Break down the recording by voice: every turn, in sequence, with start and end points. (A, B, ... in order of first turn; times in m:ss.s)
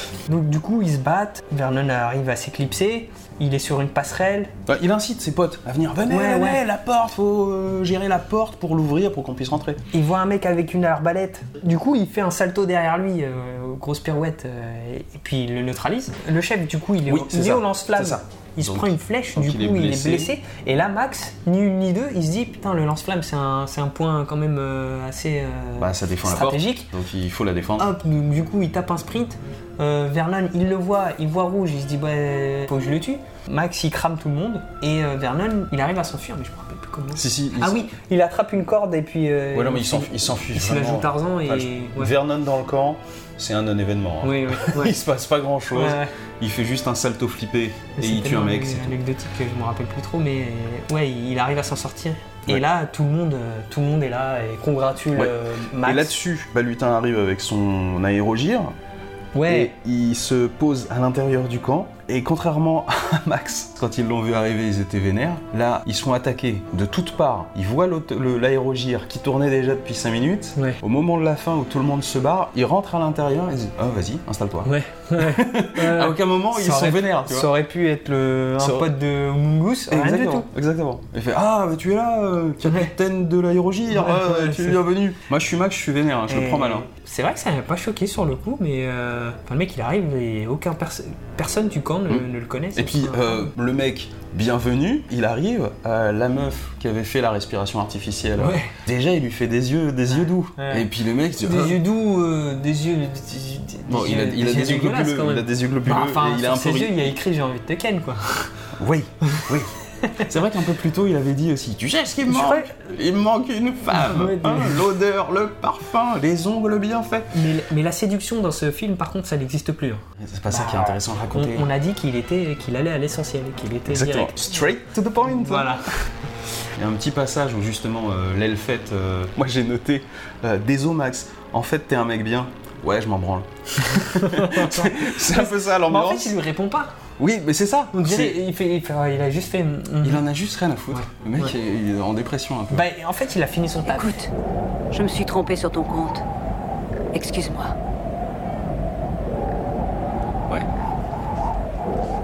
0:00.3-0:04.5 A
0:04.7-0:09.8 B
0:06.1-0:06.6 A
0:09.9-0:26.9 A
0:17.1-0:20.4 B
0:25.8-0:27.9 B
0:27.8-0:42.1 A
0:37.1-0:37.8 B
0:39.5-0:49.0 B
0:44.2-0:45.0 A
0:45.7-0:46.1 A
0:48.0-0:56.1 A
0:55.1-0:58.7 B
0:59.3-0:59.7 A
0:59.4-1:17.5 B
1:14.6-1:20.5 A
1:18.6-1:18.9 B
1:19.9-1:26.9 B
1:22.6-1:22.9 A
1:23.9-1:24.8 A
1:26.3-1:33.5 A
1:32.1-1:41.8 B
1:38.4-1:38.7 A
1:40.1-1:40.9 A
1:41.4-1:48.5 A
1:43.9-1:47.0 B
1:48.8-1:57.3 B
1:52.3-1:52.7 A
1:53.9-1:54.8 A
1:57.3-2:04.4 A
2:00.2-2:01.7 B
2:03.9-2:05.8 B
2:05.2-2:05.8 A
2:06.7-2:16.4 B
2:13.9-2:16.9 A
2:17.2-2:18.4 B
2:17.9-2:20.2 A
2:20.0-2:22.8 B
2:20.9-2:21.5 A
2:22.7-2:24.2 A
2:23.9-2:24.3 C
2:24.9-2:26.2 C
2:27.1-2:27.7 C